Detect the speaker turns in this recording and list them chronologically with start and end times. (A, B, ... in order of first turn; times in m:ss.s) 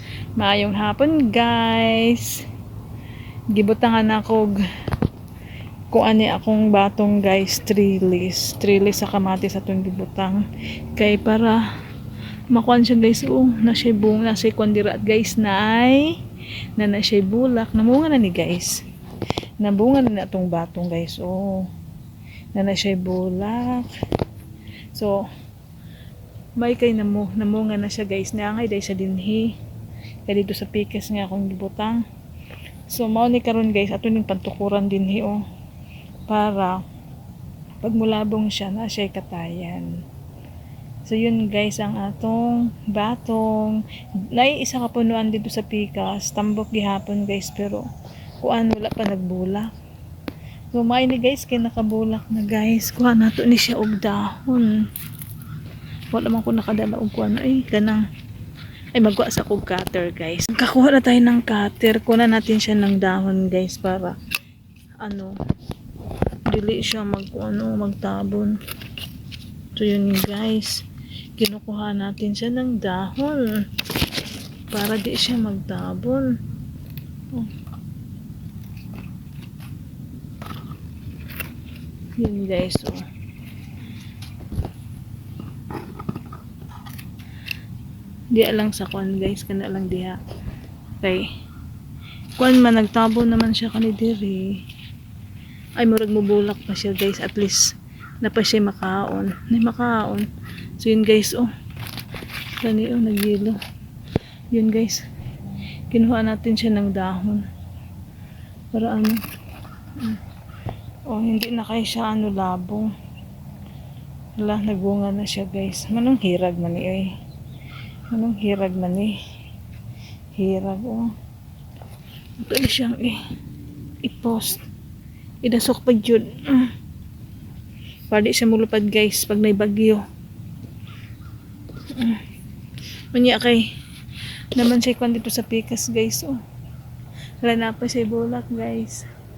0:00.4-0:02.4 A
0:03.5-0:04.6 A
0:05.9-0:10.4 A
0:11.0-0:11.6 A
0:12.5-0:16.1 A
0:16.8-0:18.8 A
0:19.6-0:21.7 A
0:22.5-0:23.9 A
0:26.6-0:29.5 A
0:30.3-0:32.0 A
0:32.9-0:35.4 A
0:36.3-0:36.8 A
0:37.8-0:39.9 A
0:41.0-0:43.8 A
0:44.3-0:47.8 A
0:48.4-0:49.7 A
0:50.7-0:54.8 A
0:56.1-0:58.0 A
0:59.0-1:04.2 A
1:05.0-1:05.3 A
1:06.4-1:08.6 A
1:09.8-1:10.8 A
1:11.4-1:13.6 A
1:14.7-1:16.3 A
1:22.2-1:23.0 A
1:28.3-1:30.2 A
1:31.0-1:31.2 A
1:32.4-1:34.6 A
1:35.8-1:37.7 A
1:38.2-1:40.3 A
1:40.8-1:41.5 A
1:42.6-1:43.6 A
1:44.5-1:45.0 A
1:45.9-1:47.4 A
1:48.7-1:49.2 A
1:51.1-1:52.9 A
1:54.4-1:57.1 A
1:58.1-1:59.1 A
2:00.3-2:01.1 A
2:02.4-2:03.2 A
2:04.0-2:04.6 A
2:05.4-2:06.7 A
2:08.1-2:10.0 A
2:11.9-2:12.2 A
2:13.1-2:13.7 A
2:14.5-2:16.4 A
2:17.4-2:19.0 A